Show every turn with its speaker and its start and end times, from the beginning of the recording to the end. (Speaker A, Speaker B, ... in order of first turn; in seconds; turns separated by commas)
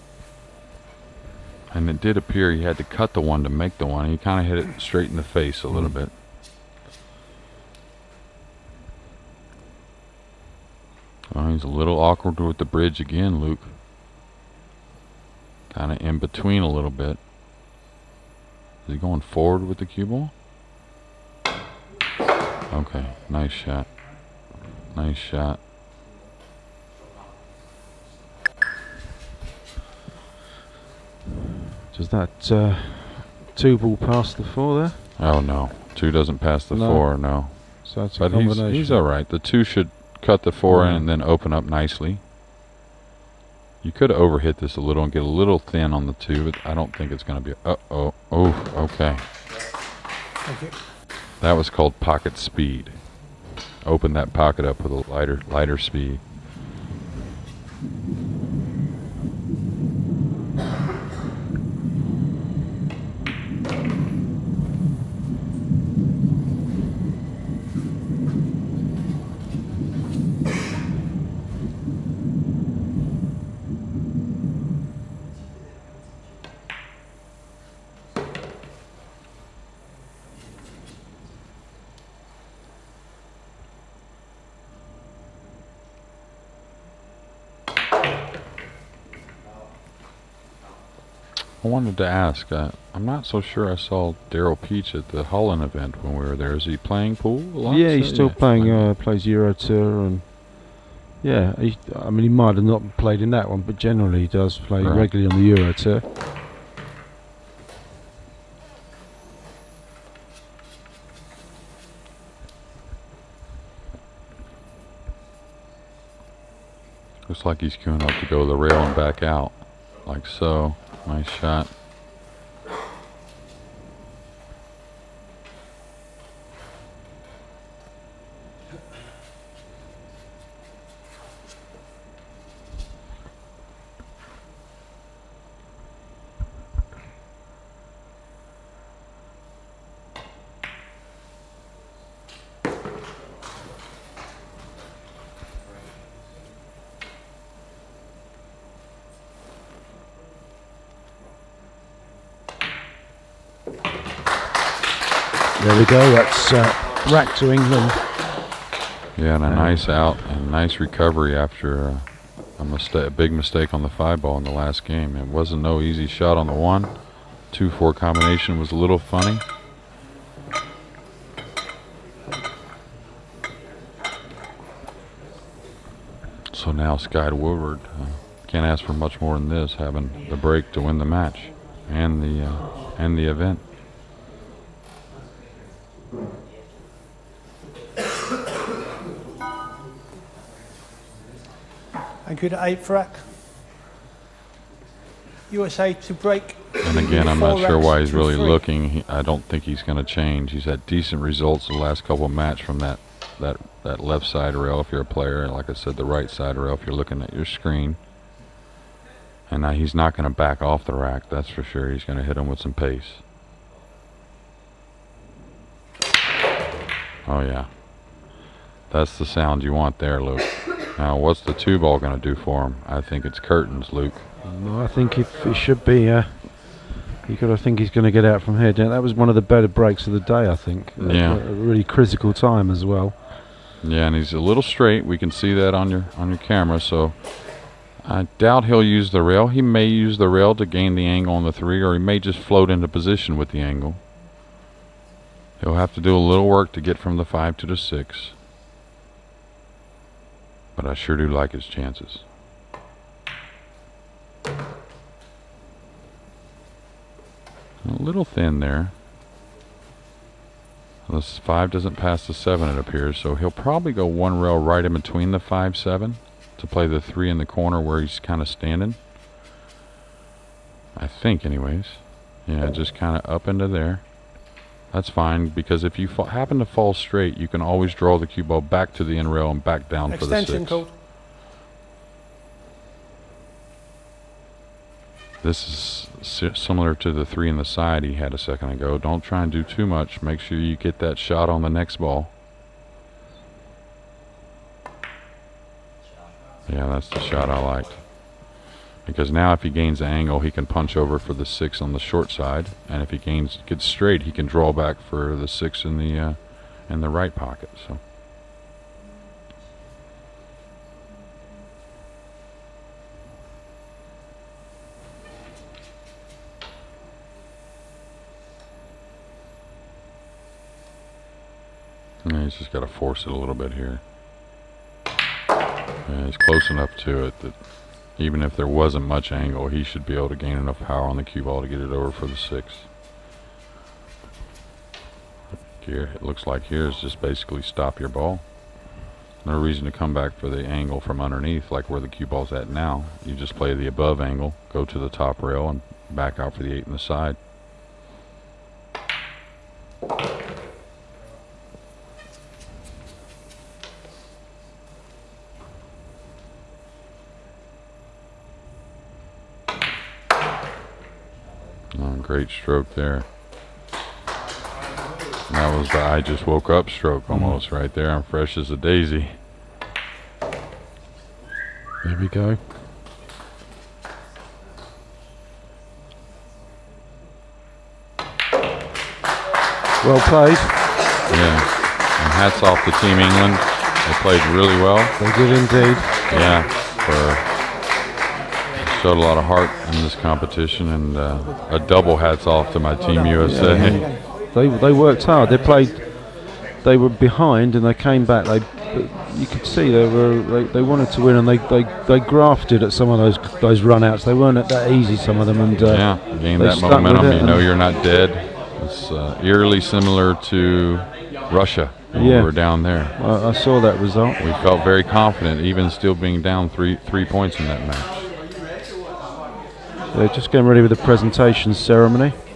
Speaker A: 1.7-6.1, Speaker B: 5.7-6.0, Speaker A: 11.3-13.8, Speaker A: 15.7-17.2, Speaker A: 18.8-20.3, Speaker A: 22.7-24.0, Speaker A: 24.5-25.6, Speaker B: 31.9-35.0, Speaker A: 35.2-42.2, Speaker B: 36.7-39.0, Speaker B: 40.6-41.1, Speaker A: 43.8-49.2, Speaker C: 50.4-50.8, Speaker A: 51.4-56.2, Speaker A: 91.6-98.9, Speaker B: 97.7-106.0, Speaker A: 104.8-105.1, Speaker A: 117.2-121.7, Speaker B: 155.6-158.2, Speaker A: 159.1-169.4, Speaker B: 159.4-160.1, Speaker A: 176.5-183.6, Speaker C: 192.2-193.3, Speaker C: 195.5-198.6, Speaker A: 196.8-208.0, Speaker A: 209.5-213.2, Speaker A: 217.2-218.4, Speaker A: 218.9-224.3, Speaker B: 224.4-233.2, Speaker A: 231.0-231.4, Speaker A: 233.8-244.0, Speaker A: 245.6-248.4, Speaker A: 250.8-252.2, Speaker A: 257.8-258.9, Speaker A: 261.1-269.0, Speaker A: 270.9-280.9, Speaker C: 280.1-280.9, Speaker A: 285.4-292.3, Speaker A: 296.6-308.0, Speaker A: 322.2-324.0, Speaker A: 326.0-332.9, Speaker A: 335.8-347.4, Speaker A: 361.9-363.2, Speaker A: 365.5-369.4, Speaker B: 367.3-367.6, Speaker B: 372.0-372.6, Speaker B: 380.0-380.8, Speaker A: 381.3-385.1, Speaker B: 385.2-386.1, Speaker A: 386.3-387.4, Speaker A: 388.8-394.1, Speaker B: 393.4-407.6, Speaker A: 405.7-413.1, Speaker B: 412.1-414.4, Speaker A: 414.4-418.2, Speaker B: 420.1-422.4